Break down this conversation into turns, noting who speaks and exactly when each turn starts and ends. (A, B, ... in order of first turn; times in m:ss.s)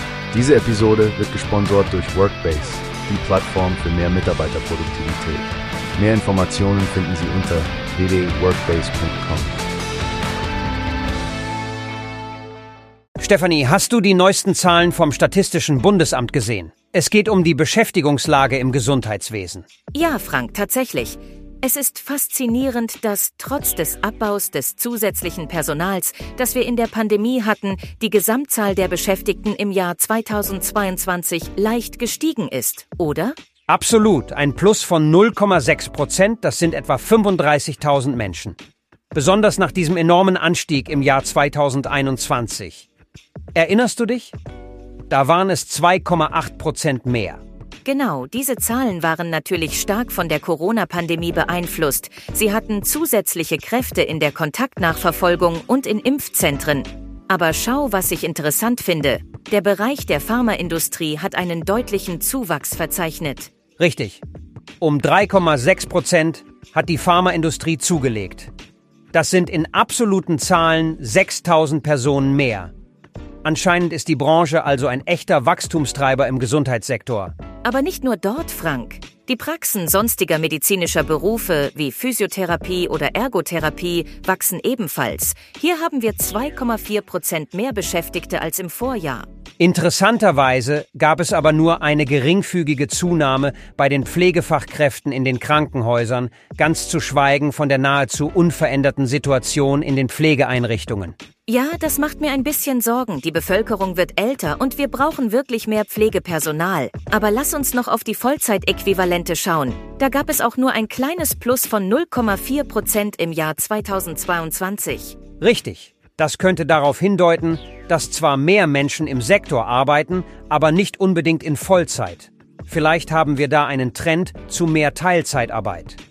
0:00.3-0:09.7 A
0:13.2-0:19.6 B
0:19.9-0:33.4 C
0:33.7-0:38.6 B
0:39.1-0:42.8 B
0:43.5-0:44.3 B
0:45.1-0:47.4 B
0:47.8-1:03.5 C
1:03.8-1:04.2 B
1:04.8-1:08.5 B
1:09.1-1:12.7 B
1:13.4-1:17.3 B
1:17.6-1:29.3 C
1:29.6-1:41.1 B
1:41.5-1:55.2 C
1:55.4-2:06.0 B